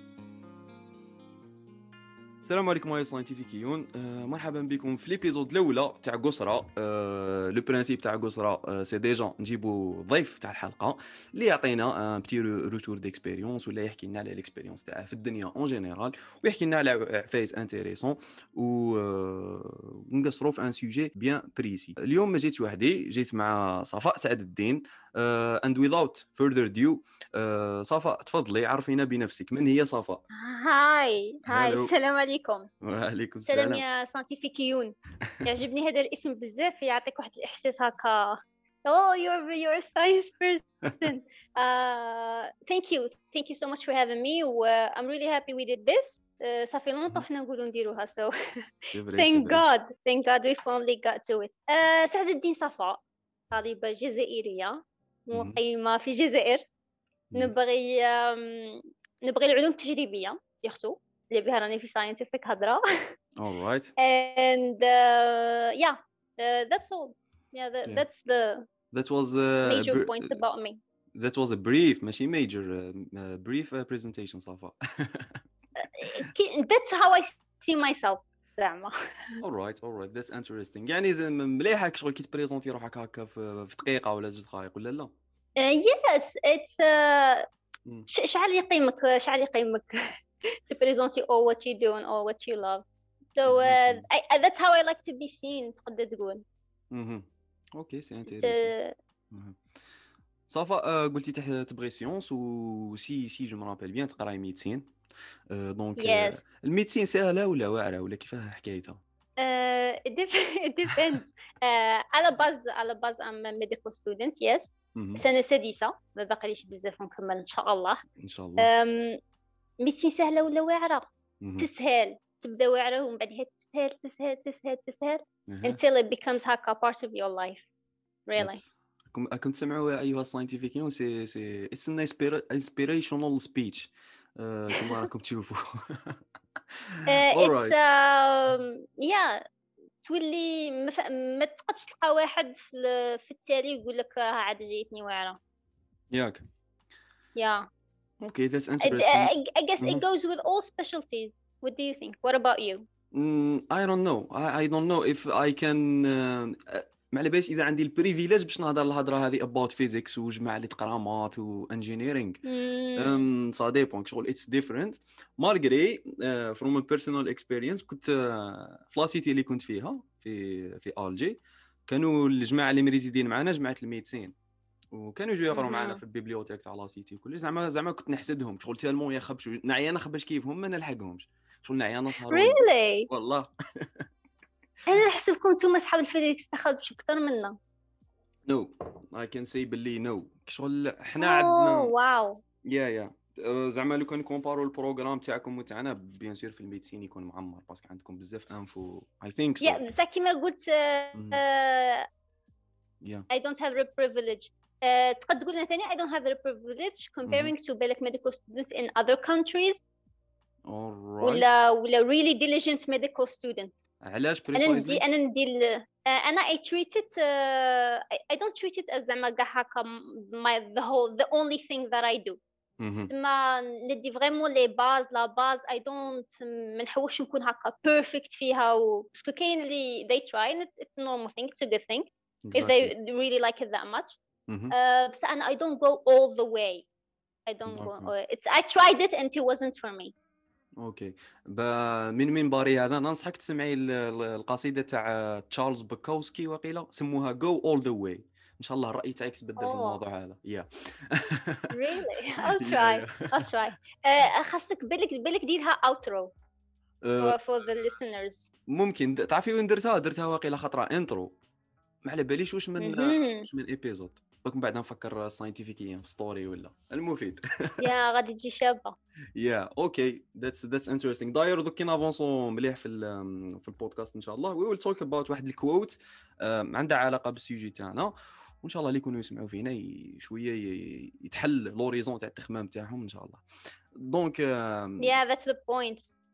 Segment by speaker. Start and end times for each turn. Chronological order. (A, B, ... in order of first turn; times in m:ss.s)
0:02.4-0:30.2 A
0:30.3-0:32.7 B
0:31.4-0:31.9 A
0:32.8-0:33.8 A
0:33.4-0:48.3 B
0:48.8-0:53.0 B
0:48.9-0:49.6 A
0:53.5-0:56.6 B
0:55.3-0:55.6 A
0:57.3-1:02.8 B
1:03.4-1:03.9 A
1:04.0-1:08.7 B
1:08.9-1:10.4 A
1:09.6-1:10.8 B
1:11.1-1:15.4 A
1:15.8-1:19.4 B
1:19.4-1:25.1 A
1:25.6-1:27.5 B
1:28.1-1:32.8 B
1:33.4-1:36.4 B
1:33.4-1:34.0 A
1:36.9-1:38.7 A
1:38.3-1:38.9 B
1:39.3-1:39.6 A
1:40.5-1:44.9 A
1:45.5-1:49.0 A
1:46.0-1:46.5 B
1:49.4-1:58.0 B
1:54.9-1:55.2 A
1:58.2-1:58.7 A
1:58.6-1:59.2 B
1:59.8-2:01.0 B
2:01.4-2:01.7 A
2:01.6-2:07.7 B
2:05.5-2:05.8 A
2:08.3-2:08.6 B
2:08.4-2:17.8 A
2:17.1-2:19.4 B
2:20.0-2:25.4 B
2:26.1-2:26.4 A
2:27.4-2:27.7 B
2:28.2-2:30.0 A
2:28.8-2:32.8 B
2:33.1-2:42.4 A
2:42.4-2:43.3 B
2:43.0-2:54.3 A
2:54.9-3:04.1 A
2:55.5-2:56.0 B
3:02.3-3:03.1 B
3:04.9-3:07.6 B
3:08.5-3:11.9 A
3:11.2-3:12.4 B
3:12.6-3:19.8 A
3:19.6-3:22.1 B
3:21.1-3:21.4 A
3:23.3-3:29.9 B
3:27.3-3:27.5 A
3:30.6-3:31.4 A
3:31.2-3:33.8 B
3:34.0-3:35.0 A
3:34.5-3:42.4 B
3:42.8-3:43.1 A
3:43.1-3:56.9 B
3:52.4-3:52.9 A
3:54.5-3:54.8 A
3:57.5-4:00.1 B
3:57.7-3:58.1 A
4:00.8-4:11.7 A
4:09.6-4:10.0 B
4:11.7-4:16.3 B
4:12.6-4:13.5 A
4:17.0-4:17.4 A
4:17.2-4:18.5 B
4:18.7-4:21.4 A
4:22.0-4:27.8 A
4:22.8-4:23.5 B
4:27.8-4:29.0 B
4:29.4-4:43.4 A
4:43.9-4:45.1 A
4:45.0-4:46.1 B